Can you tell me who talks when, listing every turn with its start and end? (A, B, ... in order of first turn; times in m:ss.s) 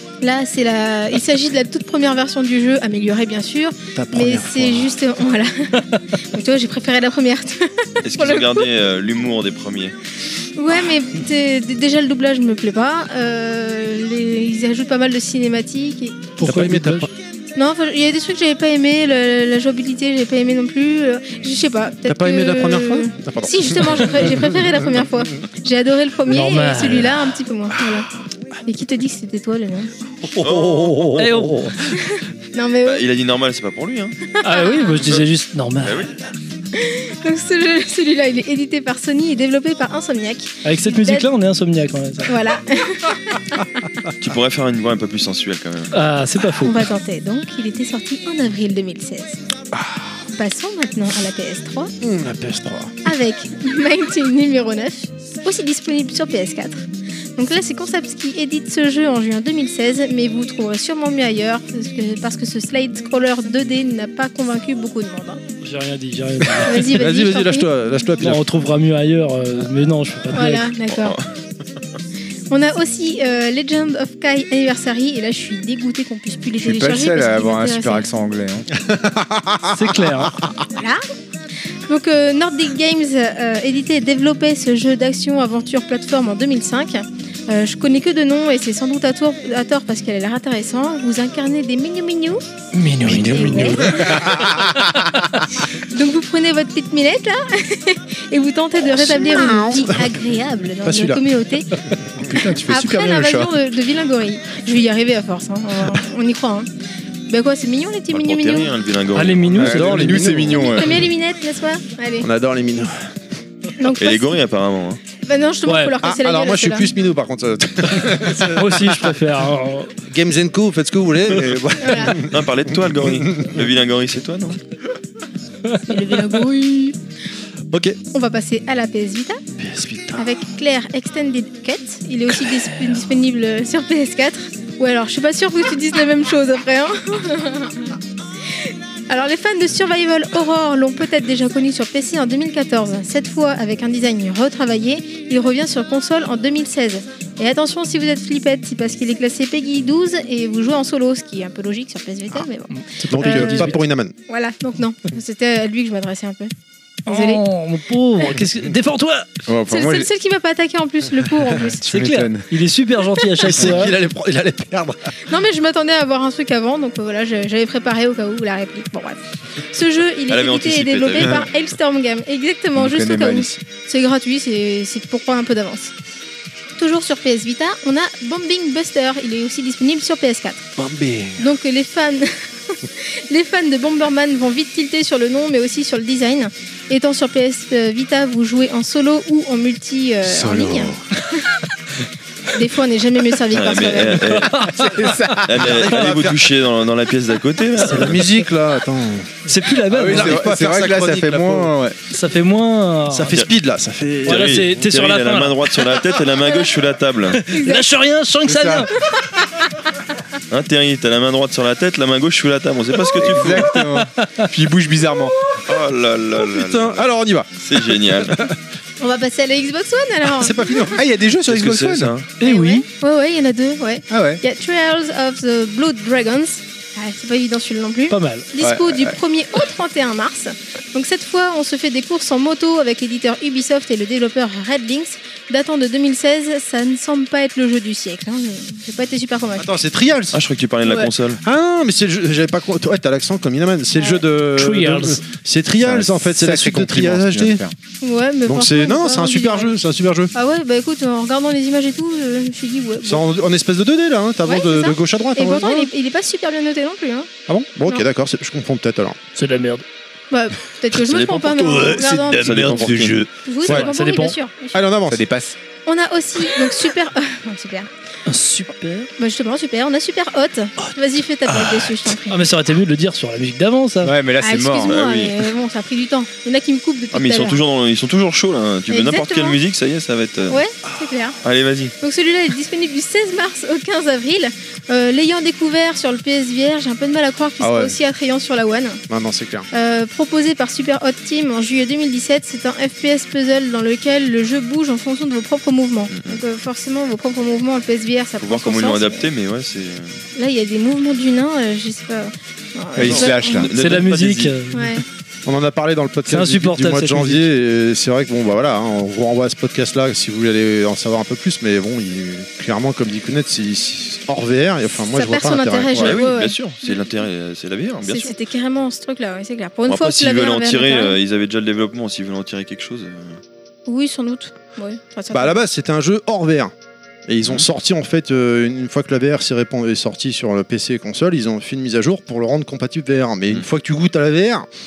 0:00.2-0:08.7 A
0:03.9-0:04.9 B
0:08.0-0:10.0 C
0:10.6-0:16.4 A
0:16.4-0:17.1 B
0:16.4-0:17.1 D
0:17.5-0:28.1 A
0:22.0-0:24.8 B
0:26.3-0:27.2 D
0:28.6-0:29.9 A
0:30.2-0:31.7 B
0:30.4-0:31.2 C
0:31.1-0:31.9 D
0:31.9-0:33.0 A
0:32.8-0:34.3 C
0:34.4-0:35.1 A
0:34.4-0:36.0 D
0:35.8-0:36.1 C
0:36.7-0:41.3 A
0:40.6-0:42.3 D
0:42.2-0:43.8 A
0:44.2-0:45.9 C
0:45.9-0:46.9 D
0:46.6-0:49.4 A
0:49.7-0:50.0 B
0:50.3-0:51.9 A
0:52.0-0:53.1 B
0:53.0-0:56.8 A
0:57.4-1:05.4 A
1:05.6-1:06.9 D
1:06.6-1:07.7 A
1:06.7-1:08.4 B
1:08.2-1:10.7 D
1:10.3-1:11.2 A
1:10.9-1:11.3 C
1:12.5-1:18.1 A
1:16.6-1:18.7 E
1:18.7-1:20.5 B
1:19.7-1:20.4 D
1:20.7-1:21.0 A
1:21.9-1:32.4 A
1:32.7-1:34.1 D
1:33.0-1:34.8 B
1:33.1-1:34.3 A
1:35.7-1:41.7 A
1:38.8-1:40.2 B
1:40.8-1:41.2 B
1:42.2-1:43.5 E
1:42.7-1:46.7 A
1:47.3-1:48.7 A
1:48.1-1:49.9 C
1:49.1-1:50.3 D
1:49.6-1:51.0 E
1:49.6-1:50.7 B
1:50.5-1:52.3 A
1:52.2-1:53.1 B
1:53.8-1:54.4 A
1:53.9-1:55.0 C
1:55.2-1:56.9 A
1:55.6-1:55.9 D
1:56.0-1:59.1 B
1:58.4-1:59.9 D
2:00.0-2:03.6 B
2:01.8-2:02.2 A
2:02.1-2:04.6 C
2:05.7-2:06.2 D
2:05.9-2:07.0 A
2:07.7-2:08.0 B
2:08.1-2:09.4 A
2:09.6-2:10.4 B
2:10.2-2:18.0 A
2:18.5-2:33.8 A
2:32.7-2:33.8 D
2:33.1-2:34.1 B
2:34.3-2:36.5 A
2:37.1-2:37.4 A
2:37.1-2:39.4 D
2:39.5-2:40.1 E
2:39.7-2:41.8 A
2:41.8-2:42.5 E
2:41.8-2:44.0 D
2:43.4-2:45.1 B
2:45.2-2:49.2 A
2:49.7-2:55.9 A
2:50.3-2:51.5 C
2:52.8-2:53.6 E
2:56.8-3:00.7 A
3:00.8-3:01.4 B
3:01.4-3:11.4 A
3:10.3-3:10.9 E
3:12.5-3:14.4 A
3:13.5-3:14.6 C
3:14.3-3:15.4 D
3:14.8-3:16.4 B
3:14.8-3:15.5 E
3:15.4-3:18.2 C
3:17.8-3:21.7 B
3:19.4-3:20.5 D
3:19.9-3:22.0 E
3:22.1-3:23.3 D
3:23.1-3:24.6 B
3:24.2-3:26.0 D
3:24.2-3:27.4 C
3:27.4-3:28.9 D
3:27.5-3:27.8 A
3:28.5-3:28.8 E
3:30.5-3:33.8 C
3:33.1-3:35.4 E
3:33.7-3:34.5 D
3:35.6-3:37.1 C
3:36.3-3:38.5 B
3:37.6-3:38.5 C
3:39.0-3:40.9 A
3:40.2-3:41.1 B
3:40.9-3:42.1 E
3:41.5-3:42.3 C
3:42.4-3:42.8 D
3:42.4-3:59.7 A
3:44.1-3:44.4 E
3:48.1-3:48.5 D
3:48.6-3:49.2 E
3:59.6-4:00.4 B
4:00.3-4:01.4 C
4:00.8-4:01.1 A
4:01.4-4:07.6 B
4:04.0-4:04.2 A
4:04.5-4:05.2 D
4:05.8-4:07.7 E
4:08.0-4:09.7 A
4:08.4-4:10.3 B
4:10.3-4:13.2 A
4:13.0-4:15.8 B
4:14.4-4:17.3 A
4:17.5-4:19.2 B
4:19.3-4:19.8 D
4:20.3-4:22.6 A
4:20.9-4:23.3 C
4:22.5-4:23.1 B
4:22.5-4:23.0 E
4:23.4-4:24.9 A
4:23.6-4:23.9 B
4:23.6-4:24.4 D
4:24.7-4:25.2 B
4:25.1-4:25.6 E
4:25.8-4:27.9 A
4:28.3-4:29.1 D
4:29.2-4:32.4 A
4:31.5-4:34.1 D
4:34.0-4:35.0 E
4:34.4-4:37.6 A
4:34.8-4:35.5 C
4:37.1-4:40.6 C
4:38.9-4:39.6 A
4:40.5-4:41.4 A
4:41.4-4:41.9 C
4:42.0-4:49.0 A
4:47.6-4:48.0 B
4:49.1-4:49.7 B
4:49.7-4:59.3 A
4:56.1-4:56.4 C
4:58.4-5:00.2 C
5:00.4-5:03.7 A
5:02.9-5:03.7 E
5:03.0-5:04.5 C
5:03.7-5:04.9 D
5:04.7-5:05.0 A
5:05.4-5:16.2 B
5:06.2-5:07.5 D
5:15.0-5:17.1 A
5:16.0-5:18.3 C
5:18.0-5:21.1 A
5:19.9-5:23.4 C
5:23.9-5:25.6 A
5:25.3-5:26.7 B
5:27.3-5:34.6 B